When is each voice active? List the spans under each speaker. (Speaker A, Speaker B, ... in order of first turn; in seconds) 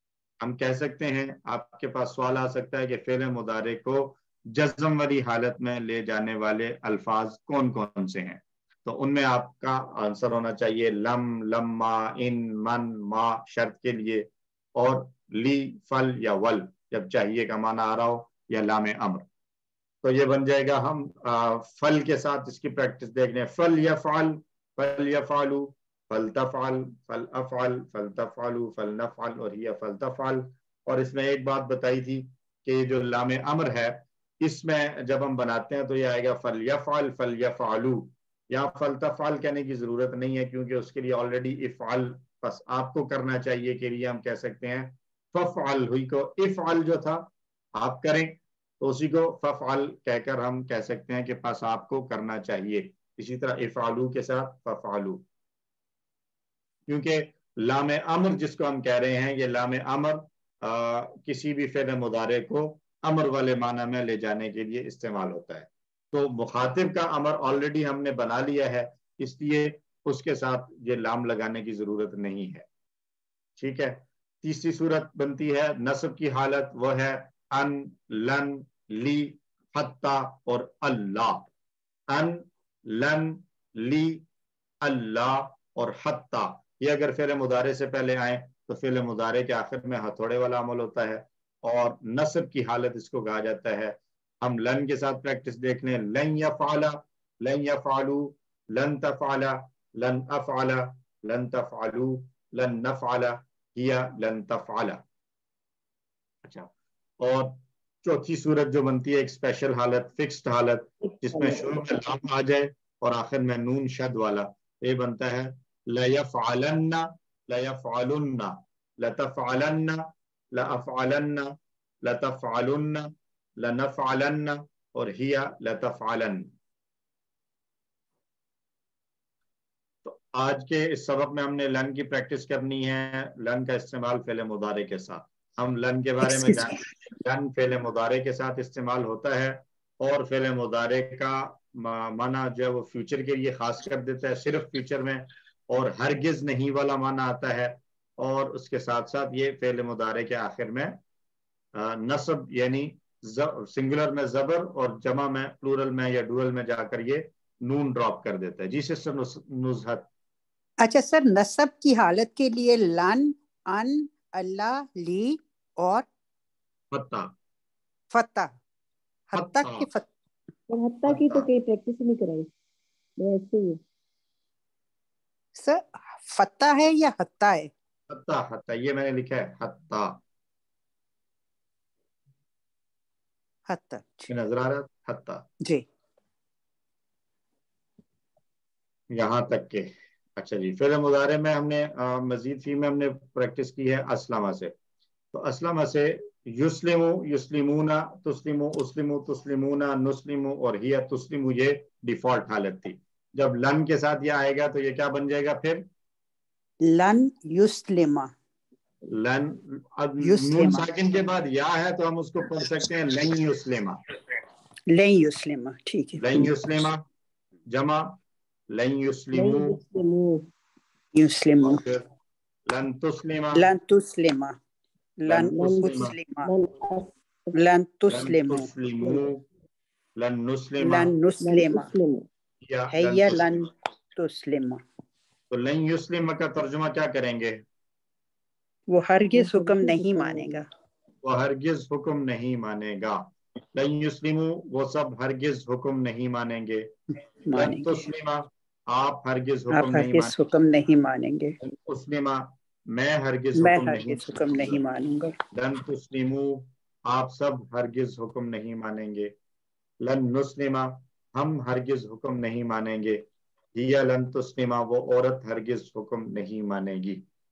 Speaker A: 0.4-19.2, 20.0-55.2, 56.9-72.7, 73.6-81.5, 82.1-84.2, 84.8-105.0, 106.4-106.7, 107.2-126.5, 130.0-151.0, 151.8-160.1, 166.9-167.3, 169.3-169.9, 171.1-171.5, 178.1-180.2, 184.3-185.4, 189.1-194.7, 195.3-205.8, 209.1-214.0, 216.2-217.0, 217.7-218.2, 218.7-219.8, 221.6-222.1, 222.7-223.7, 225.3-226.2, 228.1-229.4, 230.2-231.1, 232.6-233.7, 235.5-237.6, 241.2-246.9, 247.5-250.4, 251.6-254.8, 255.5-259.3, 260.0-263.2, 263.7-267.2
Speaker B: 111.0-112.0, 170.7-172.5, 173.2-173.8, 219.3-220.5, 225.5-227.5, 231.4-232.3, 239.3-240.6
Speaker C: 160.8-166.1, 168.1-168.5, 169.3-170.1, 175.6-177.7, 183.7-184.3, 206.8-208.3, 210.2-210.9, 214.9-216.5, 221.1-221.8, 223.5-224.6, 225.2-226.5, 227.5-228.7, 230.8-231.9, 232.9-234.8, 238.9-240.7, 247.4-247.9, 249.7-251.5, 253.6-255.3